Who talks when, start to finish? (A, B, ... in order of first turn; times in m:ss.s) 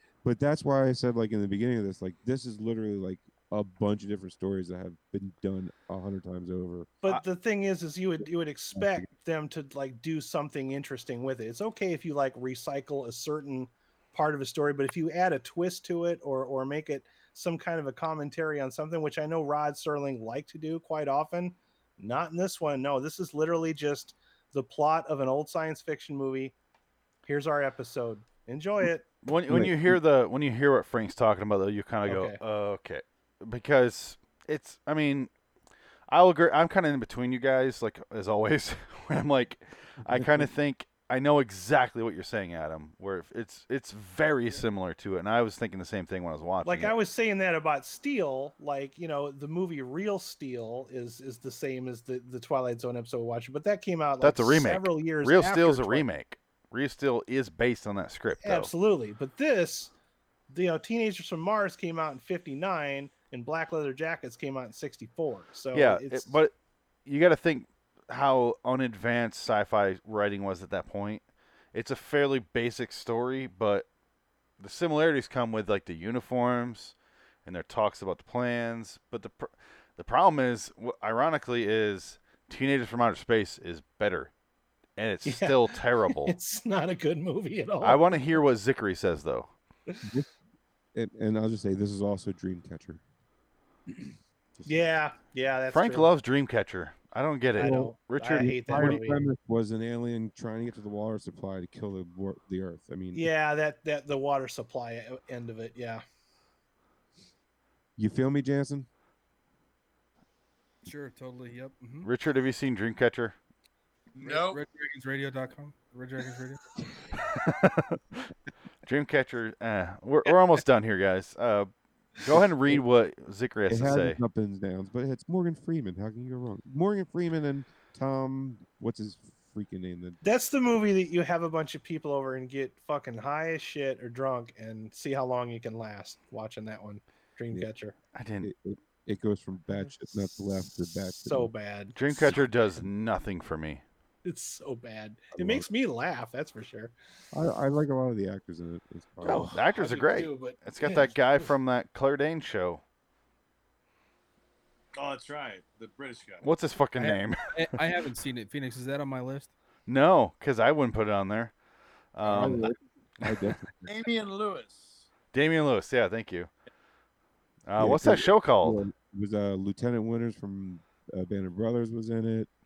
0:00.2-0:06.9 A
0:07.0-0:26.5 B
0:08.7-0:09.1 A
0:27.2-0:29.1 B
0:29.2-0:35.3 C
0:29.5-0:30.0 A
0:32.0-0:32.4 B
0:36.1-0:46.9 C
0:40.1-0:40.5 A
0:46.6-0:56.1 B
0:54.2-0:58.7 C
0:58.4-0:59.9 B
1:00.5-1:06.4 B
1:05.7-1:06.5 C
1:07.0-1:11.2 C
1:11.7-1:13.9 C
1:14.6-1:24.3 C
1:25.0-1:26.4 C
1:25.2-1:28.2 B
1:27.8-1:29.5 C
1:30.0-1:30.3 A
1:30.9-1:33.0 A
1:34.6-1:34.9 A
1:34.6-1:36.1 B
1:35.7-1:39.0 C
1:37.6-1:39.2 B
1:37.6-1:43.3 A
1:43.1-1:46.0 B
1:48.0-1:48.9 A
1:50.8-1:52.1 D
1:52.0-1:53.3 C
1:54.2-1:54.6 E
1:54.2-1:56.6 D
1:57.4-1:58.3 C
1:58.8-2:04.2 C
2:03.7-2:10.2 A
2:10.2-2:17.9 B
2:18.1-2:18.5 C
2:18.4-2:21.5 A
2:21.1-2:22.4 B
2:22.0-2:23.8 C
2:24.2-2:26.9 B
2:25.3-2:25.7 A
2:27.3-2:29.6 A
2:29.2-2:32.8 C
2:29.5-2:31.5 B
2:34.9-2:36.4 E
2:36.4-2:37.4 C
2:37.0-2:39.5 D
2:39.9-2:41.5 C
2:42.1-2:42.7 C
2:42.2-2:44.0 A
2:43.8-2:45.1 E
2:45.3-2:46.5 C
2:47.6-2:48.8 C
2:47.8-2:52.5 A